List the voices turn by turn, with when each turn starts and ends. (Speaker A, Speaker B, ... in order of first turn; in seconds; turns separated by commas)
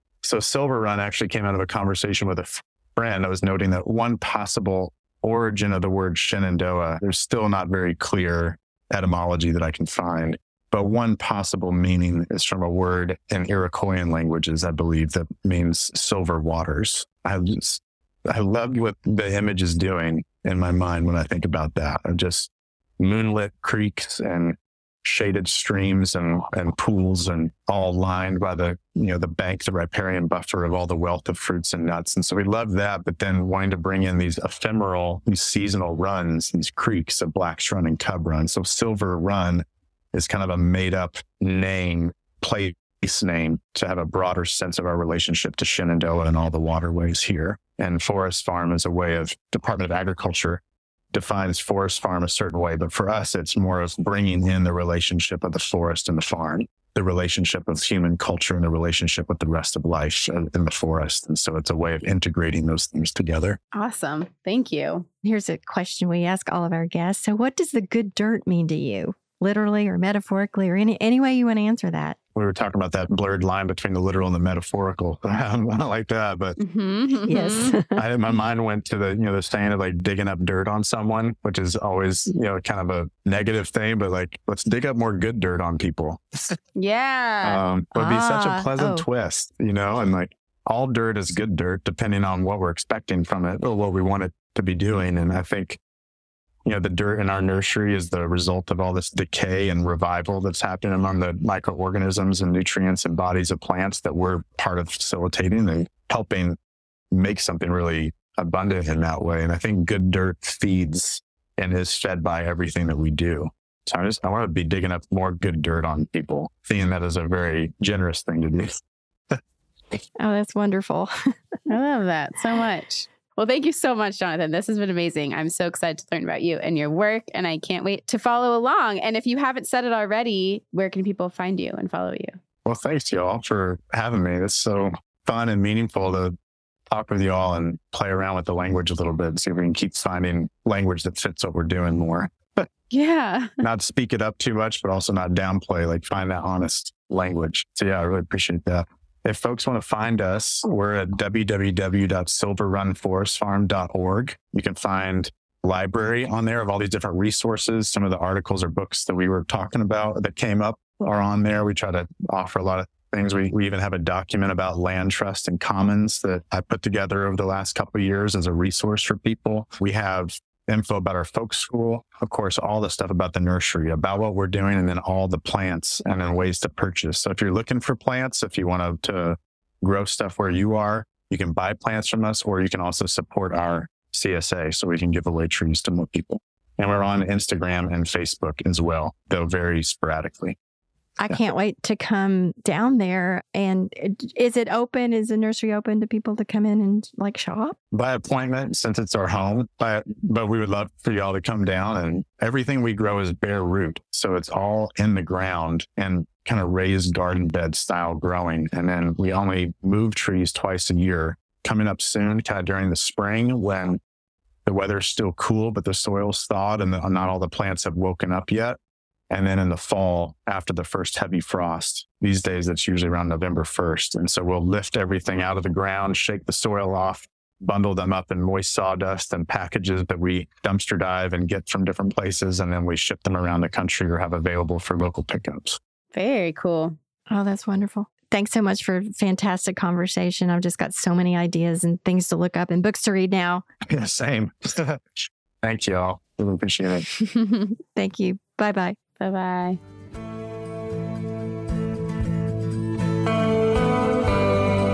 Speaker A: 0.2-50.6, Speaker A: 51.1-63.6, Speaker B: 63.7-65.0, Speaker C: 65.2-72.2, Speaker A: 72.3-76.6, Speaker B: 76.6-77.8, Speaker C: 77.3-78.0, Speaker A: 77.9-86.6, Speaker B: 86.8-87.6, Speaker A: 87.4-95.8, Speaker C: 87.9-89.0, Speaker A: 96.6-106.6, Speaker A: 107.1-118.8, Speaker C: 120.2-121.1, Speaker B: 121.7-132.3, Speaker A: 132.6-136.3, Speaker A: 136.9-142.7, Speaker B: 142.9-143.6, Speaker A: 143.6-190.6, Speaker C: 191.2-197.8, Speaker A: 197.9-214.0, Speaker A: 214.7-218.8, Speaker A: 219.3-235.8, Speaker B: 236.1-236.9, Speaker C: 237.3-243.7, Speaker A: 243.9-247.1, Speaker C: 247.9-249.0, Speaker B: 249.2-249.8